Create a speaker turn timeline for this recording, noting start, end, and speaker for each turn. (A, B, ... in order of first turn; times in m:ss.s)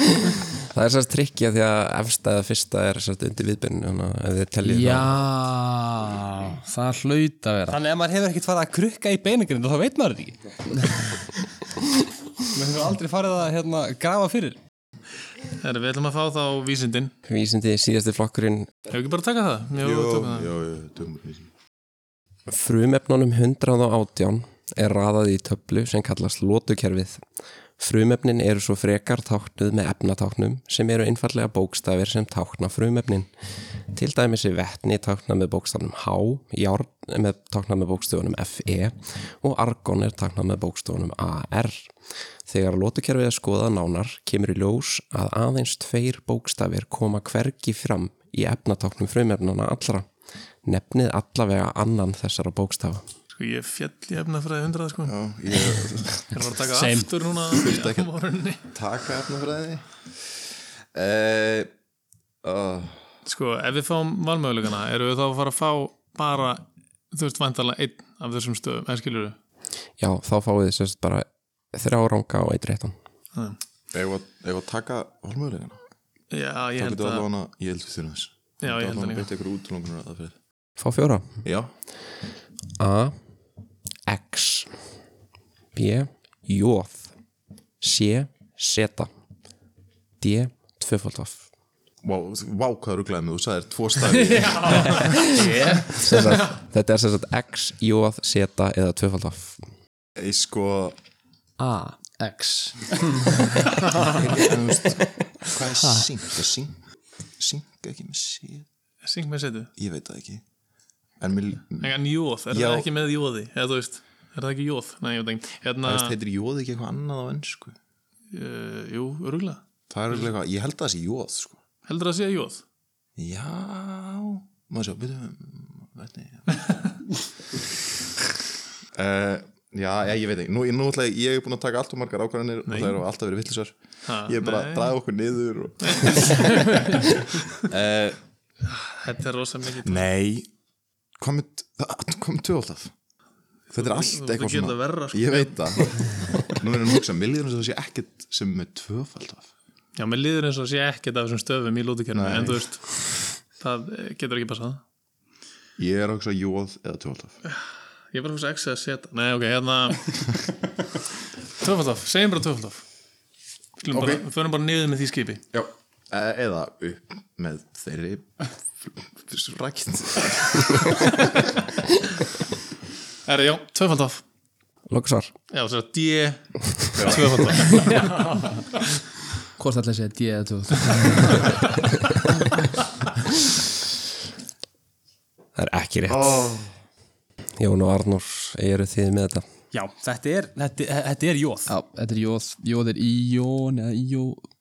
0:00.6-0:05.2 A
0:04.6-0:07.8 B
0:07.7-0:11.1 C
0:12.4-0:14.6 C
0:15.5-0:17.1 D
0:17.2-0:18.7 A
0:18.9-0:20.5 D
0:19.8-0:21.5 E
0:22.5-0:27.2 A
0:27.8-0:33.3 A
0:33.9-0:41.9 A
0:42.5-0:50.1 A
0:50.6-0:53.1 A
0:53.3-0:55.2 D
0:55.1-0:56.4 E
0:56.3-0:58.6 D
0:56.7-0:57.1 C
0:57.5-0:58.1 E
0:58.7-1:00.0 E
1:00.9-1:01.7 E
1:02.4-1:03.0 E
1:03.3-1:09.4 D
1:10.0-1:13.0 A
1:13.9-1:15.8 E
1:16.3-1:17.3 D
1:16.8-1:20.4 E
1:18.6-1:19.3 D
1:20.8-1:21.4 A
1:21.4-1:21.7 E
1:22.8-1:23.2 A
1:24.1-1:24.7 A
1:25.7-1:27.1 A
1:27.8-1:29.1 A
1:30.2-1:31.4 A
1:32.0-1:35.3 E
1:34.4-1:36.4 B
1:35.2-1:35.9 C
1:35.9-1:39.6 A
1:40.2-1:41.0 E
1:41.6-1:44.4 B
1:44.0-1:46.8 E
1:45.8-1:46.1 B
1:47.4-1:48.7 E
1:49.0-1:49.7 D
1:49.8-1:50.4 E
1:51.2-1:52.0 E
1:51.8-1:56.2 D
1:52.5-1:52.9 E
1:55.8-1:57.8 E
1:58.3-1:59.6 D
1:59.9-2:01.6 E
2:01.9-2:02.6 D
2:03.2-2:06.6 E
2:09.0-2:18.2 E
2:12.7-2:13.0 D
2:14.1-2:15.0 D
2:15.8-2:17.6 D
2:18.7-2:20.1 D
2:19.8-2:20.5 E
2:21.2-2:22.9 E
2:23.7-2:29.5 E
2:23.8-2:26.6 D
2:30.0-2:34.8 D
2:32.1-2:32.7 E
2:35.8-2:37.4 E
2:37.5-2:40.3 D
2:41.6-2:42.8 D
2:43.8-2:45.4 D
2:43.9-2:44.2 E
2:45.5-2:51.5 E
2:53.3-2:54.2 D
2:54.9-2:55.3 A
2:55.5-2:58.4 D
2:57.0-2:57.8 E
2:57.9-2:58.5 B
2:59.6-3:01.6 B
3:05.6-3:06.5 A
3:06.1-3:06.7 E
3:07.6-3:09.5 A
3:09.7-3:11.7 C
3:11.7-3:14.5 B